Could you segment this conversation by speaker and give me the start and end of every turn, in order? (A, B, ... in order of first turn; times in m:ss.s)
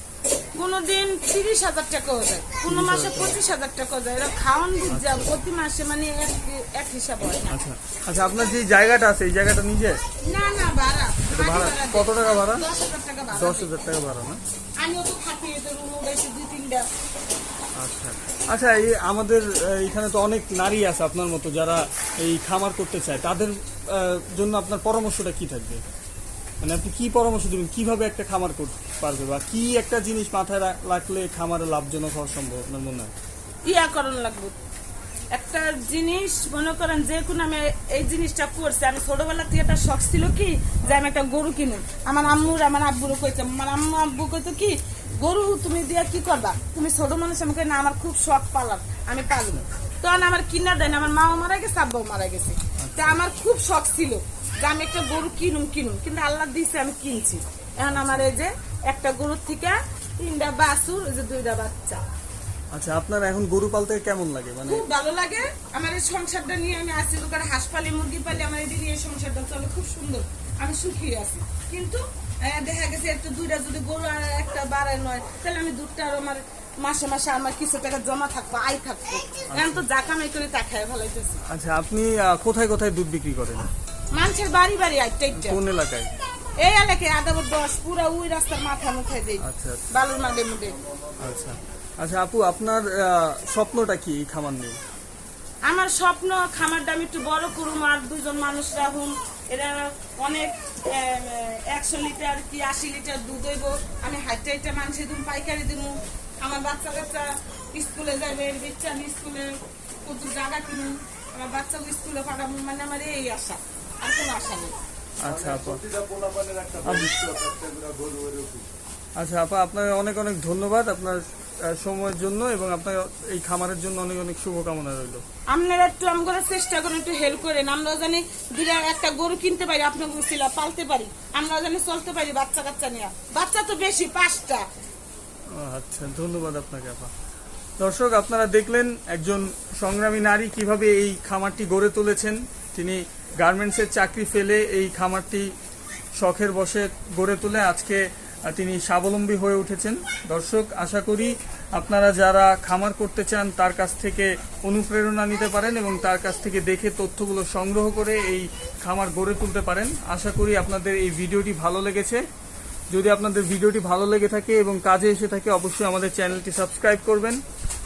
0:00.5-0:07.6 A
0:02.6-0:03.4 B
0:04.9-0:05.4 B
0:07.5-0:10.0 B
0:10.2-0:13.7 A
0:11.3-0:12.6 B
0:13.3-0:14.4 B
0:14.8-0:16.9 A
0:17.8-0:25.8 B
0:26.6-0:33.1 B
0:33.6-0:34.6 A
0:35.3-1:02.0 A
0:52.8-0:53.2 B
0:57.9-0:58.3 B
1:02.7-1:04.8 B
1:04.6-1:21.4 A
1:19.5-1:19.8 B
1:21.5-1:23.7 B
1:24.1-1:25.6 A
1:25.3-1:26.1 B
1:26.6-1:30.8 A
1:29.4-1:29.9 B
1:31.2-1:34.8 B
1:35.6-1:49.5 A
1:50.0-1:54.7 A
1:55.2-1:55.8 B
1:55.2-1:58.7 C
1:56.8-1:57.1 B
1:59.2-2:05.2 B
2:05.5-2:14.6 A
2:15.5-2:17.1 B
2:17.8-2:25.5 B
2:26.2-2:42.2 B
2:42.9-2:47.4 B